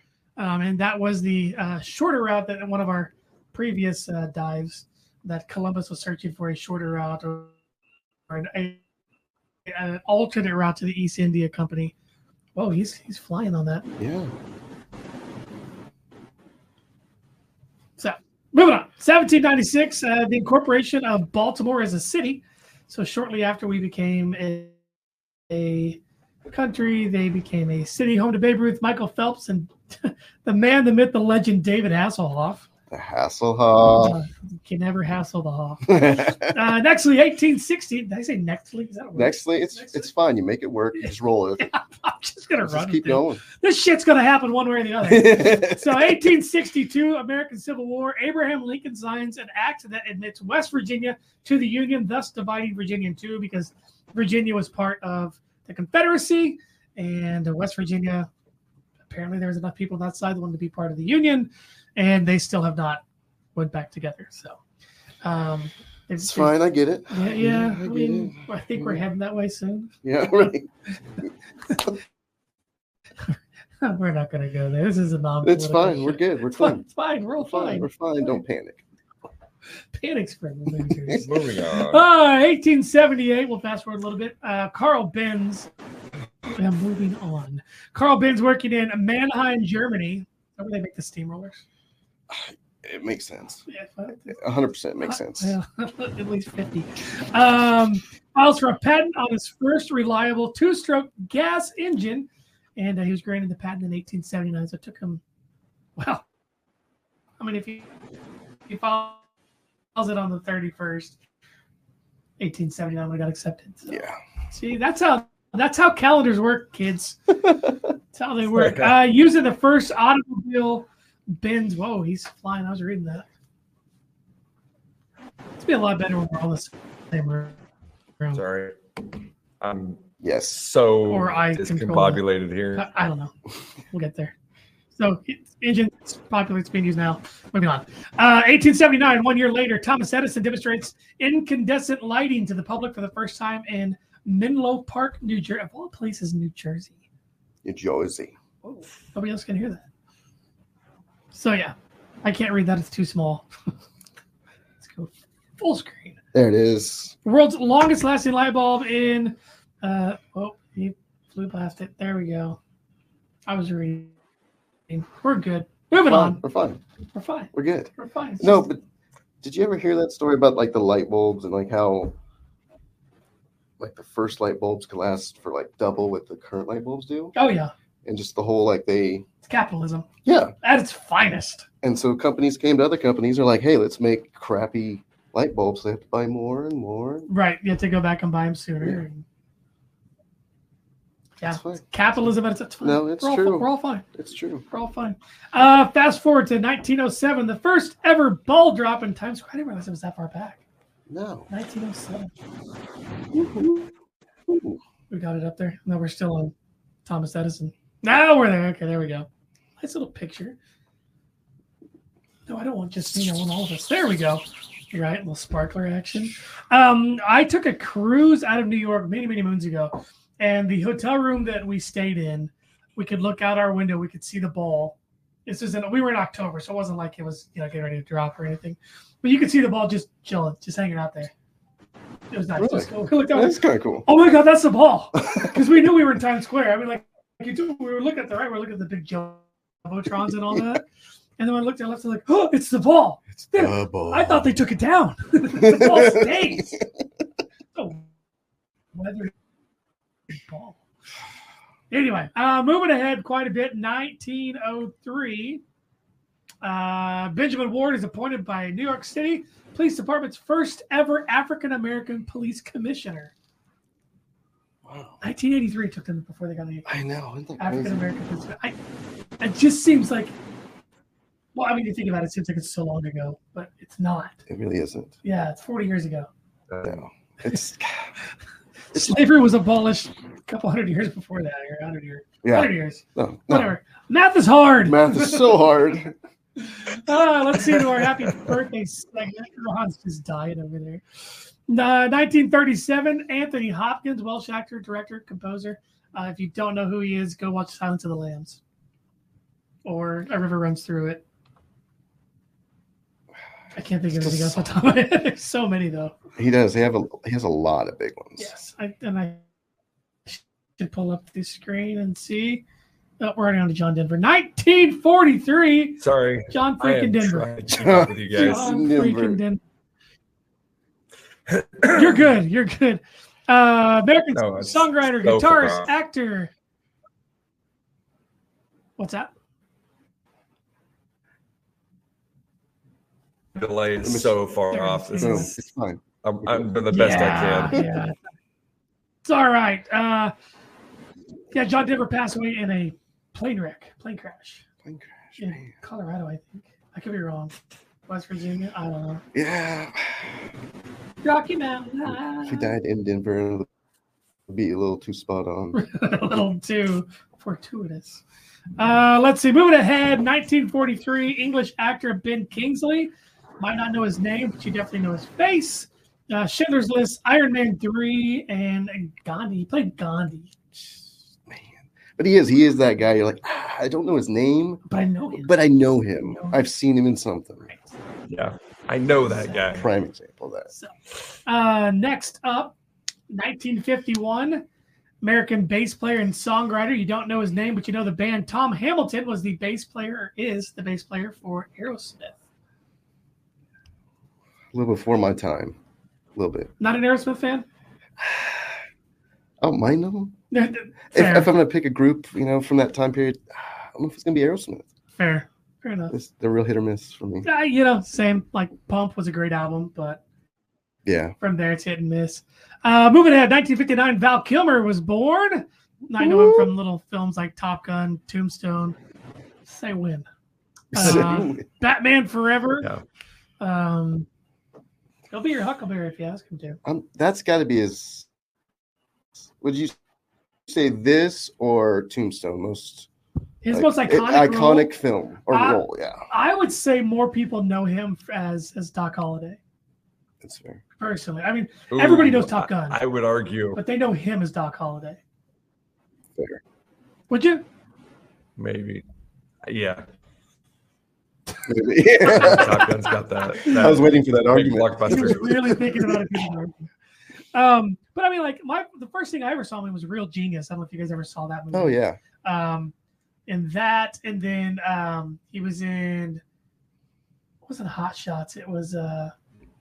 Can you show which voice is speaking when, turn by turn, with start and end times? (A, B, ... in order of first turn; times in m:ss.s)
0:00.4-0:07.5 A
0:08.3-0:08.8 A
0:09.7-0:11.9 A
0:12.6-0:13.8 A
0:14.0-0:14.3 B
0:18.0-0:24.8 A
0:25.5-0:32.7 A
0:32.9-0:34.2 B
0:34.0-0:40.1 A
0:35.9-0:36.5 B
0:39.1-0:41.7 B
0:41.6-0:58.3 A
0:42.6-0:43.4 B
0:45.0-0:46.0 B
0:59.0-1:03.0 A
1:03.5-1:04.6 A
1:05.2-1:09.9 A
1:06.2-1:09.0 B
1:10.0-1:10.7 B
1:13.2-1:17.9 A
1:15.4-1:16.8 B
1:17.4-1:18.8 B
1:19.9-1:25.7 A
1:20.9-1:21.2 B
1:21.2-1:22.0 C
1:26.5-1:31.6 A
1:32.3-1:33.6 B
1:33.7-1:34.4 A
1:34.3-1:35.5 B
1:35.0-1:45.2 A
1:46.0-1:46.2 A
1:47.4-1:47.9 A
1:48.7-1:49.2 A
1:50.0-1:51.2 A
1:52.4-1:57.4 A
1:53.9-1:54.2 B
1:58.1-2:03.3 A
1:58.5-1:59.0 C
2:05.6-2:07.6 A
2:08.3-2:08.7 C
2:09.6-2:12.9 C
2:10.2-2:10.6 B
2:11.1-2:12.2 A
2:12.7-2:13.3 A
2:13.9-2:14.3 A
2:15.0-2:27.0 A
2:27.6-2:28.3 B
2:28.6-2:29.8 A
2:31.3-2:33.5 A
2:34.8-2:36.2 A
2:36.3-2:37.2 B
2:37.2-2:42.6 A
2:43.5-2:44.1 A
2:44.9-2:46.4 A
2:45.9-2:46.8 B
2:47.1-2:48.7 A
2:47.5-2:48.8 B
2:49.4-2:52.2 B
2:53.8-2:57.3 B
2:57.3-2:57.7 A
2:58.0-2:59.2 B
2:59.4-3:00.1 A
3:00.2-3:00.5 B
3:00.6-3:01.6 A
3:01.8-3:07.3 B
3:07.3-3:09.2 A
3:11.4-3:14.0 A
3:11.4-3:11.8 B
3:12.8-3:14.6 B
3:14.7-3:20.6 A
3:21.1-3:21.5 B
3:21.5-3:22.3 A
3:23.3-3:23.9 B
3:24.5-3:24.8 B
3:25.1-3:26.5 A
3:27.0-3:29.3 A
3:29.8-3:30.6 A
3:32.5-3:51.3 A
3:52.3-4:00.8 A
3:52.6-3:54.1 B
4:01.4-4:06.7 A
4:03.3-4:04.6 B
4:05.6-4:06.8 B
4:07.7-4:08.1 A
4:08.9-4:09.3 A
4:10.3-4:10.8 A
4:11.9-4:15.6 A
4:16.6-4:23.3 A
4:24.8-4:25.2 B
4:25.2-4:26.9 A
4:26.9-4:28.1 B
4:27.6-4:28.8 A
4:29.4-4:30.3 A
4:31.5-4:34.4 A
4:34.5-4:35.2 B
4:35.2-4:36.3 A
4:36.7-4:38.1 B
4:38.9-4:45.7 A
4:42.4-4:43.8 B
4:44.8-4:46.1 B
4:46.6-4:58.6 A
4:59.8-5:01.2 A
5:03.7-5:06.1 A
5:04.1-5:04.7 B
5:06.4-5:08.5 B
5:08.4-5:09.4 A
5:10.3-5:12.6 A
5:13.2-5:17.5 A
5:16.0-5:18.8 C
5:17.7-5:19.4 B
5:18.3-5:19.6 A
5:21.5-5:22.2 C
5:21.9-5:26.5 A
5:24.3-5:25.9 C
5:29.0-5:29.3 A
5:33.5-5:35.6 C
5:34.0-5:34.4 B
5:34.7-5:35.5 A
5:35.2-5:36.7 B
5:36.2-5:37.9 C
5:36.9-5:38.2 A
5:39.2-5:40.3 A
5:41.5-5:44.6 A
5:44.8-5:45.7 B
5:45.4-5:47.5 A
5:48.1-5:49.2 A
5:49.3-5:50.3 B
5:51.2-5:52.8 A
5:52.4-5:53.7 B
5:54.5-5:55.8 B
5:55.7-5:58.2 A
5:58.8-6:10.5 A
6:10.7-6:14.8 B
6:14.8-6:15.6 A
6:15.4-6:17.7 B
6:16.2-6:16.6 A
6:18.3-6:19.8 C
6:19.2-6:19.8 A
6:19.8-6:20.7 B
6:21.4-6:22.7 A
6:23.3-6:24.6 A
6:25.2-6:32.4 A
6:34.7-6:35.8 B
6:36.4-6:36.7 B
6:36.8-6:37.6 A
6:38.2-6:38.8 B
6:39.6-6:40.3 B
6:40.5-6:41.5 A
6:41.1-6:44.9 B
6:45.2-6:46.1 A
6:46.1-6:47.5 B
6:47.4-6:50.2 A
6:51.0-6:51.3 B
6:51.4-6:59.0 A
6:56.2-6:56.7 B
6:59.6-7:00.3 A
7:00.9-7:01.6 B
7:00.9-7:02.9 A
7:03.6-7:04.3 A
7:05.3-7:06.8 A
7:06.8-7:08.3 B
7:09.6-7:10.0 B
7:10.7-7:13.1 B
7:13.6-7:14.9 A
7:13.7-7:16.2 B
7:15.5-7:19.6 A
7:20.4-7:20.8 B
7:21.0-7:23.0 A
7:21.9-7:23.8 C
7:23.7-7:25.2 A
7:26.4-7:26.6 B
7:27.3-7:27.6 A
7:28.6-7:29.0 C
7:29.6-7:30.0 C
7:31.6-7:32.8 B
7:32.2-7:35.7 C
7:33.7-7:36.2 B
7:35.1-7:36.9 A
7:37.5-7:42.9 A
7:41.7-7:42.2 B
7:43.5-7:46.4 A
7:47.6-7:49.3 A